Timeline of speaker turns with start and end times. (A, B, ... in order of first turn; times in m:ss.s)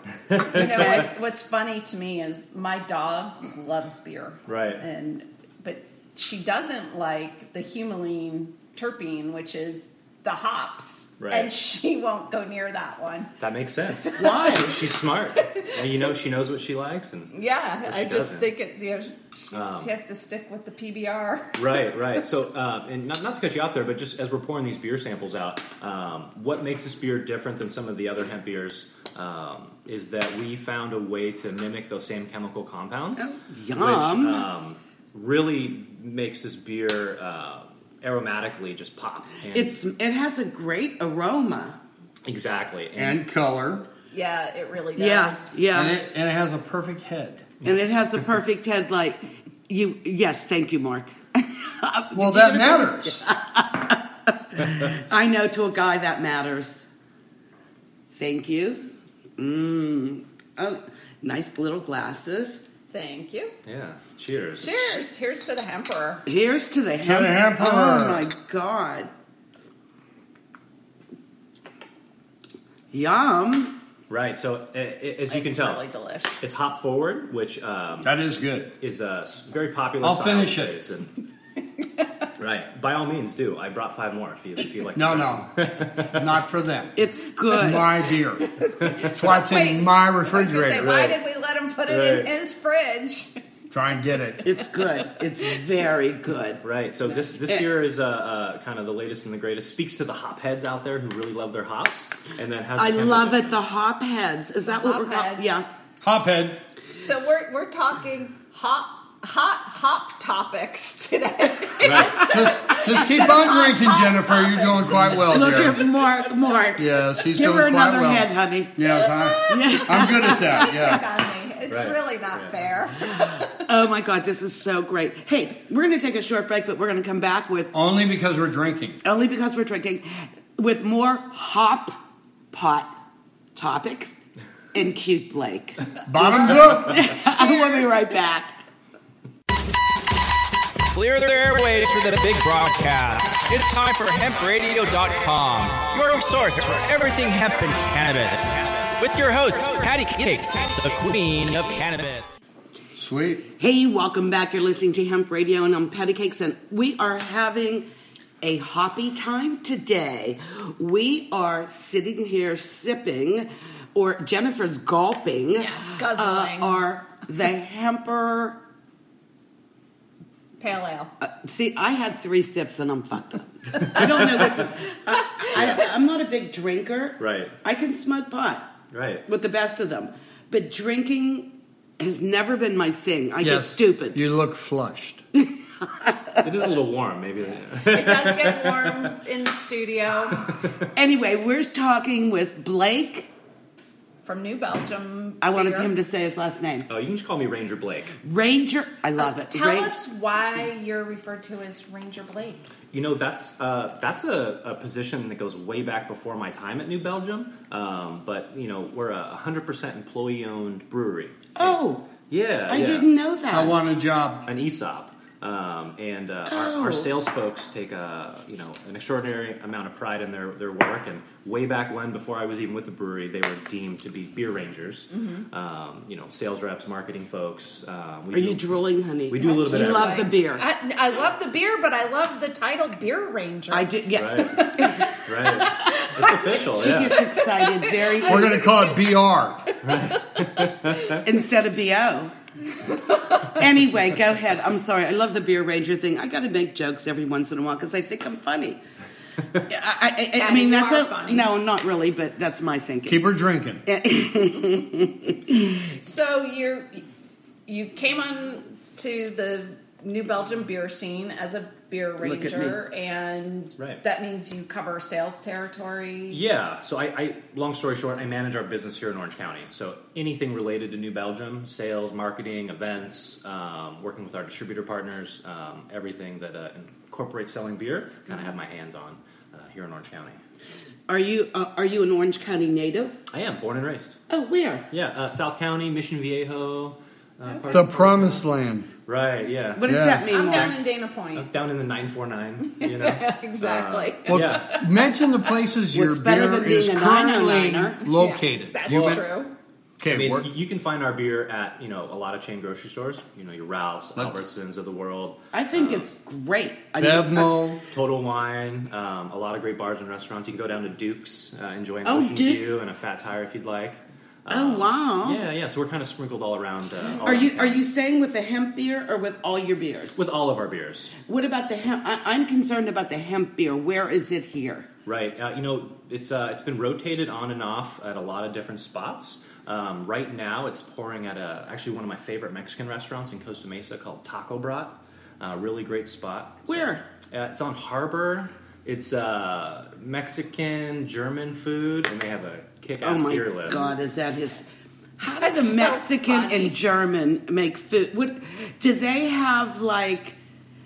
0:00.3-0:01.0 A
0:00.5-0:13.3 B
0:04.4-0:04.8 A
0:11.2-0:11.5 A
0:13.4-0:17.3 A
0:14.1-0:14.5 B
0:14.2-0:14.8 C
0:15.4-0:15.7 B
0:17.3-0:22.0 B
0:17.8-0:18.5 A
0:19.5-0:19.9 A
0:21.6-0:39.8 A
0:33.2-0:34.5 C
0:39.5-0:41.8 C
0:42.2-0:43.2 A
0:43.0-0:43.8 D
0:44.1-0:45.5 B
0:45.0-0:46.0 C
0:45.7-0:47.5 D
0:47.6-0:56.9 C
0:52.1-0:53.2 D
0:58.1-1:02.6 C
1:02.9-1:03.6 B
1:03.6-1:05.0 A
1:04.6-1:06.2 B
1:06.2-1:09.1 C
1:07.0-1:08.2 D
1:12.9-1:13.8 C
1:14.1-1:15.8 A
1:15.3-1:16.4 B
1:16.4-1:18.1 A
1:18.0-1:18.7 D
1:18.8-1:21.1 A
1:20.0-1:20.8 D
1:22.4-1:26.4 A
1:24.9-1:25.5 D
1:26.0-1:27.0 D
1:27.0-1:28.0 C
1:27.5-1:30.9 D
1:28.4-1:33.3 B
1:30.8-1:31.2 A
1:31.9-1:32.3 A
1:33.7-1:34.4 D
1:34.4-1:36.6 C
1:34.8-1:35.1 B
1:36.6-1:43.5 A
1:42.8-1:45.7 C
1:44.6-1:45.5 B
1:46.0-1:46.6 D
1:47.0-1:55.6 B
1:51.8-1:52.3 A
1:52.1-1:55.8 D
1:55.2-2:01.0 C
1:56.8-2:01.1 D
1:58.8-2:03.7 B
2:01.7-2:02.5 A
2:03.5-2:07.7 C
2:07.7-2:09.0 D
2:09.0-2:12.0 C
2:12.5-2:12.9 C
2:13.5-2:14.2 C
2:14.7-2:18.6 C
2:16.1-2:17.1 D
2:16.2-2:16.5 B
2:17.0-2:18.0 B
2:20.9-2:32.3 E
2:33.0-2:33.5 D
2:33.6-2:37.9 C
2:38.4-2:48.6 C
2:45.5-2:46.8 B
2:50.6-2:51.1 B
2:51.2-2:58.7 C
2:53.9-2:54.4 A
2:55.1-2:55.6 B
2:55.5-2:55.8 A
2:57.2-2:57.5 A
2:58.9-2:59.2 A
2:59.3-3:04.2 C
3:03.4-3:05.2 D
3:05.3-3:06.4 C
3:06.4-3:09.1 A
3:07.8-3:10.6 B
3:10.5-3:10.8 A
3:10.9-3:13.3 C
3:14.2-3:15.9 B
3:15.4-3:16.9 C
3:16.9-3:18.2 A
3:18.2-3:20.0 C
3:19.2-3:22.6 B
3:22.9-3:31.8 A
3:31.5-3:32.1 C
3:32.3-3:33.1 A
3:32.7-3:33.8 C
3:33.5-3:34.5 D
3:34.4-3:48.7 A
3:36.5-3:37.1 C
3:45.1-3:45.4 B
3:48.3-3:50.6 C
3:49.3-3:50.3 A
3:49.4-3:53.9 B
3:53.7-3:55.1 C
3:54.1-3:57.2 A
3:54.5-3:59.0 B
3:56.6-3:58.6 C
3:58.2-3:59.6 D
3:59.7-4:01.1 B
3:59.8-4:01.2 A
4:01.2-4:02.3 C
4:02.9-4:03.5 B
4:03.4-4:08.8 C
4:09.7-4:13.2 C
4:10.4-4:11.5 B
4:13.1-4:13.8 D
4:13.8-4:15.8 C
4:15.9-4:17.0 B
4:17.7-4:26.4 B
4:22.2-4:22.8 C
4:26.3-4:40.4 A
4:41.1-4:43.2 C
4:43.3-4:44.2 A
4:44.3-4:44.8 C
4:44.9-4:48.4 A
4:47.4-4:47.9 B
4:47.7-4:48.9 D
4:49.0-4:49.8 A
4:49.7-4:50.8 C
4:49.8-4:50.3 D
4:50.3-4:51.5 B
4:51.3-4:54.8 A
4:52.7-4:55.1 B
4:54.3-4:59.2 D
4:55.9-4:58.0 C
4:58.1-4:59.5 B
4:58.9-4:59.2 A
5:00.0-5:00.5 D
5:00.1-5:06.1 A
5:05.5-5:07.7 C
5:07.0-5:07.8 D
5:07.9-5:17.8 A
5:12.0-5:12.6 C
5:14.5-5:15.4 C
5:17.2-5:20.2 C
5:20.2-5:21.2 A
5:21.2-5:24.9 C
5:25.0-5:43.9 A
5:36.7-5:37.0 C
5:43.0-5:50.4 C
5:45.3-5:46.8 B